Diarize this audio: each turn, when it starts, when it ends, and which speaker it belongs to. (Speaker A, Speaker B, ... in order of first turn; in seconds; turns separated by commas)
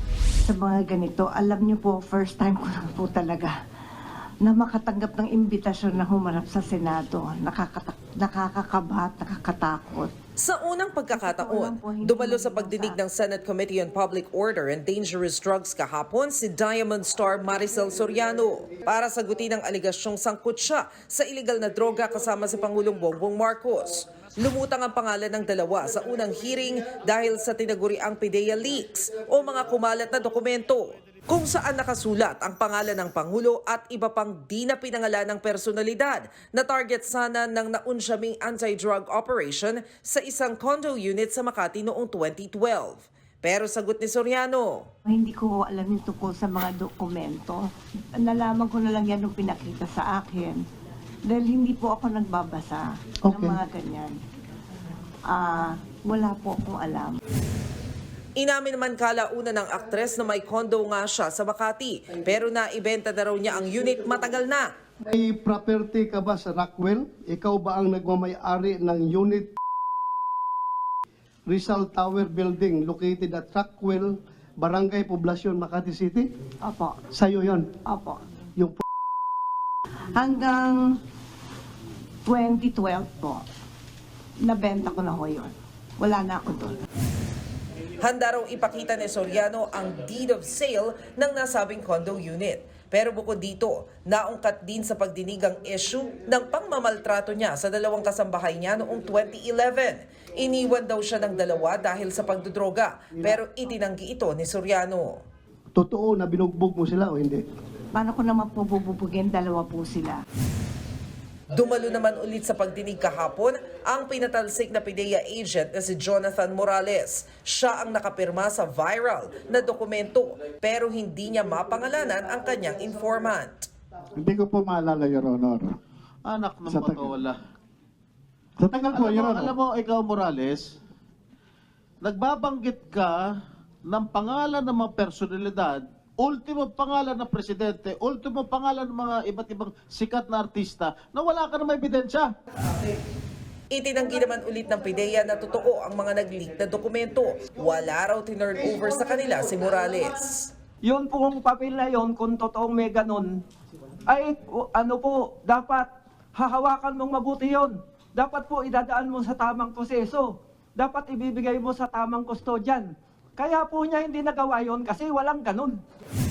Speaker A: 0.5-3.5, Speaker A: 4.4-10.1, Speaker B: 10.4-44.9, Speaker A: 11.1-13.0, Speaker A: 45.1-47.6, Speaker A: 48.2-50.6, Speaker A: 51.3-54.1, Speaker C: 53.2-53.6, Speaker A: 55.3-57.2, Speaker B: 58.4-64.7, Speaker C: 65.0-69.5, Speaker C: 71.5-76.3, Speaker A: 76.6-77.0, Speaker C: 77.1-77.7, Speaker A: 77.8-78.2, Speaker C: 78.6-78.8, Speaker A: 80.2-81.0, Speaker A: 82.3-83.4, Speaker A: 84.4-86.8, Speaker B: 88.0-105.2, Speaker C: 105.8-107.4, Speaker A: 107.9-110.2, Speaker B: 111.5-123.7, Speaker D: 124.2-125.7, Speaker E: 126.2-127.3, Speaker D: 126.7-127.1, Speaker D: 128.6-129.4, Speaker E: 128.8-130.7, Speaker E: 132.0-133.3, Speaker E: 133.9-142.3, Speaker B: 143.7-150.5, Speaker F: 150.9-153.3, Speaker F: 154.1-160.2, Speaker F: 160.8-162.9, Speaker F: 163.4-165.7